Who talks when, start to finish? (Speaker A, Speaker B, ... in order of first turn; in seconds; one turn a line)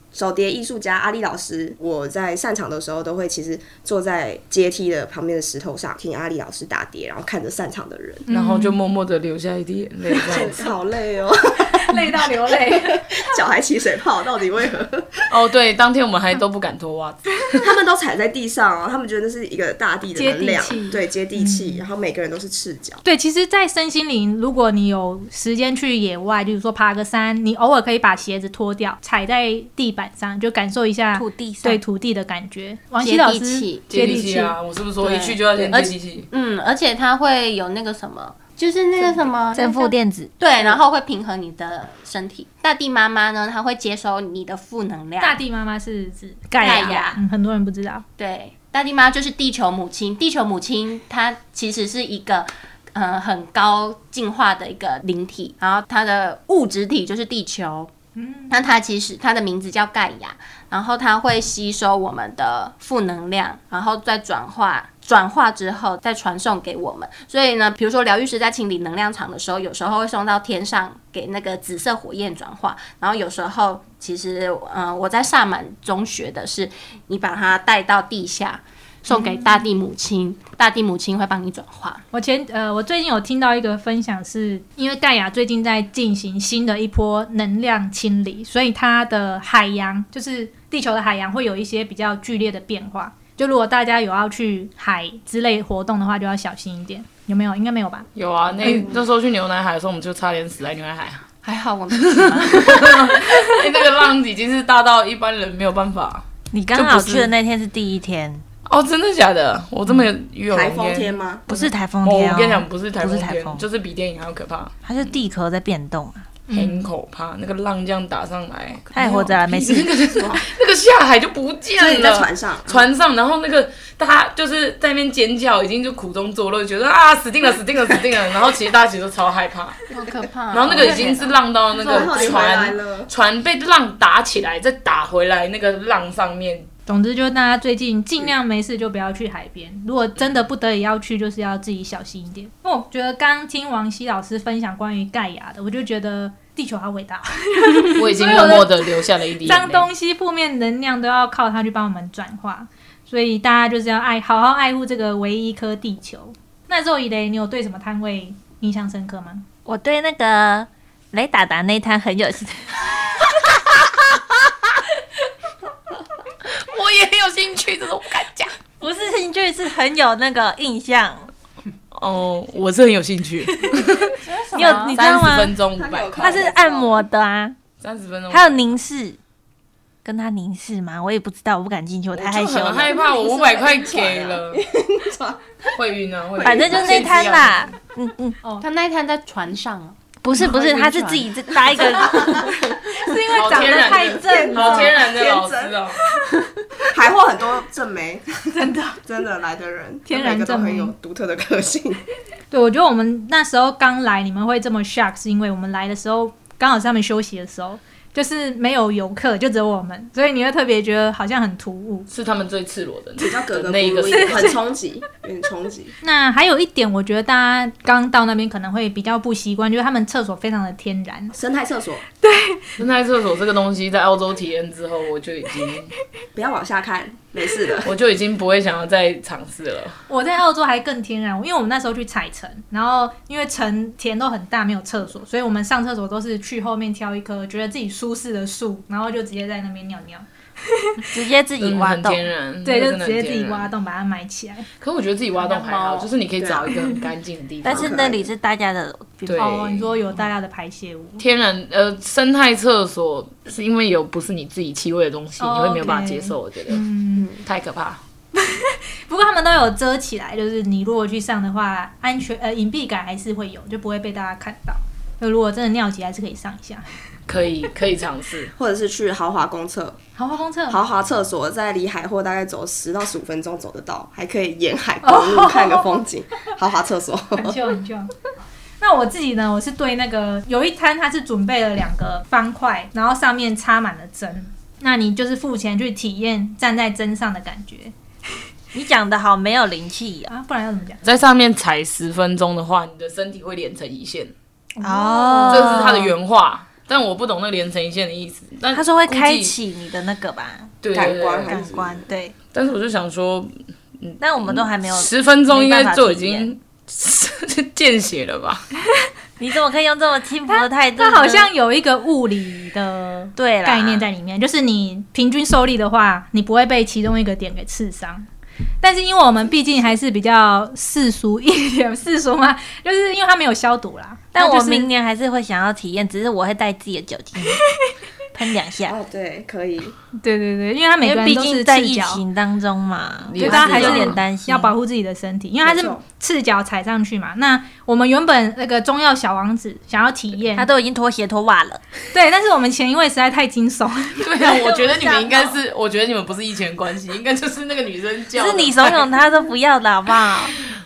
Speaker A: 0.1-8.2
Speaker B: 8.3-8.8
Speaker C: 8.3-10.6
Speaker A: 10.2-15.2
Speaker B: 11.8-13.1
Speaker C: 15.3-17.7
Speaker A: 17.6-23.0
Speaker B: 20.1-21.9
Speaker B: 23.1-34.6
Speaker D: 31.1-31.8
Speaker E: 33.0-34.2
Speaker C: 33.9-36.3
Speaker E: 35.0-45.4
Speaker D: 39.5-40.3
Speaker B: 45.2-48.0
Speaker D: 46.6-47.2
Speaker E: 46.6-47.2
Speaker E: 48.2-57.9
Speaker B: 58.1-58.5
Speaker E: 58.5-82.0
Speaker B: 79.1-79.6
Speaker B: 82.1-98.1
Speaker C: 98.1-101.2
Speaker E: 101.4-103.1
Speaker C: 101.9-107.3
Speaker D: 106.5-108.4
Speaker C: 108.7-114.7
Speaker A: 110.5-111.5
Speaker D: 111.5-113.6
Speaker D: 114.8-116.4
Speaker B: 116.5-116.9
Speaker C: 116.5-129.9
Speaker D: 118.9-120.0
Speaker A: 121.8-122.9
Speaker E: 129.9-132.6
Speaker C: 130.5-136.7
Speaker A: 131.8-133.1
Speaker B: 136.9-159.4
Speaker C: 147.9-149.9
Speaker D: 159.7-162.8
Speaker C: 166.4-168.6
Speaker D: 168.8-171.3
Speaker C: 171.9-174.2
Speaker D: 173.7-175.6
Speaker E: 174.3-174.9
Speaker A: 174.5-174.9
Speaker C: 174.7-176.5
Speaker A: 175.8-177.1
Speaker D: 176.2-177.6
Speaker C: 177.8-178.6
Speaker D: 178.3-179.2
Speaker D: 180.0-183.1
Speaker C: 182.1-184.6
Speaker A: 183.3-185.4
Speaker C: 185.7-187.8
Speaker D: 186.4-188.4
Speaker A: 186.4-187.1
Speaker E: 188.6-192.3
Speaker D: 190.2-192.6
Speaker B: 192.4-195.0
Speaker C: 193.3-196.0
Speaker A: 194.2-195.8
Speaker A: 196.9-202.0
Speaker B: 198.5-199.0
Speaker B: 200.1-200.9
Speaker B: 202.5-212.1
Speaker C: 212.1-214.6
Speaker A: 213.2-215.9
Speaker B: 214.1-214.5
Speaker B: 216.0-221.3
Speaker A: 221.3-222.0
Speaker B: 222.2-222.7
Speaker C: 222.8-225.9
Speaker A: 226.3-227.9
Speaker C: 227.8-230.0
Speaker B: 230.1-241.1
Speaker D: 241.1-242.2
Speaker C: 241.6-243.7
Speaker B: 242.6-244.7
Speaker C: 244.8-248.1
Speaker E: 245.4-246.1
Speaker A: 246.4-246.7
Speaker D: 247.6-249.4
Speaker A: 247.6-248.3
Speaker C: 249.2-249.9
Speaker B: 249.4-251.2
Speaker C: 251.2-256.8
Speaker B: 255.4-257.3
Speaker C: 257.4-258.0
Speaker B: 258.3-266.9
Speaker C: 267.3-268.5
Speaker A: 268.6-270.0
Speaker B: 270.2-270.8
Speaker A: 270.7-277.6
Speaker B: 275.0-275.9
Speaker B: 277.3-278.1
Speaker B: 278.8-287.9
Speaker D: 288.7-290.3
Speaker B: 290.3-291.0
Speaker C: 291.0-294.3
Speaker B: 294.8-295.9
Speaker D: 294.8-296.1
Speaker C: 295.5-299.5
Speaker D: 298.7-300.8
Speaker C: 300.8-301.6
Speaker A: 300.9-302.0
Speaker D: 301.5-302.3
Speaker C: 302.5-308.6
Speaker D: 304.2-306.5
Speaker D: 309.4-311.5
Speaker B: 310.5-318.3
Speaker D: 313.4-314.1
Speaker B: 318.8-324.9
Speaker D: 324.3-327.6
Speaker D: 328.3-328.9
Speaker A: 328.9-329.9
Speaker B: 330.2-332.2
Speaker D: 331.0-334.7
Speaker C: 333.3-334.2
Speaker B: 333.4-340.7
Speaker A: 335.6-336.0
Speaker D: 340.6-341.8
Speaker B: 342.1-345.3
Speaker C: 344.2-349.1
Speaker D: 348.3-350.6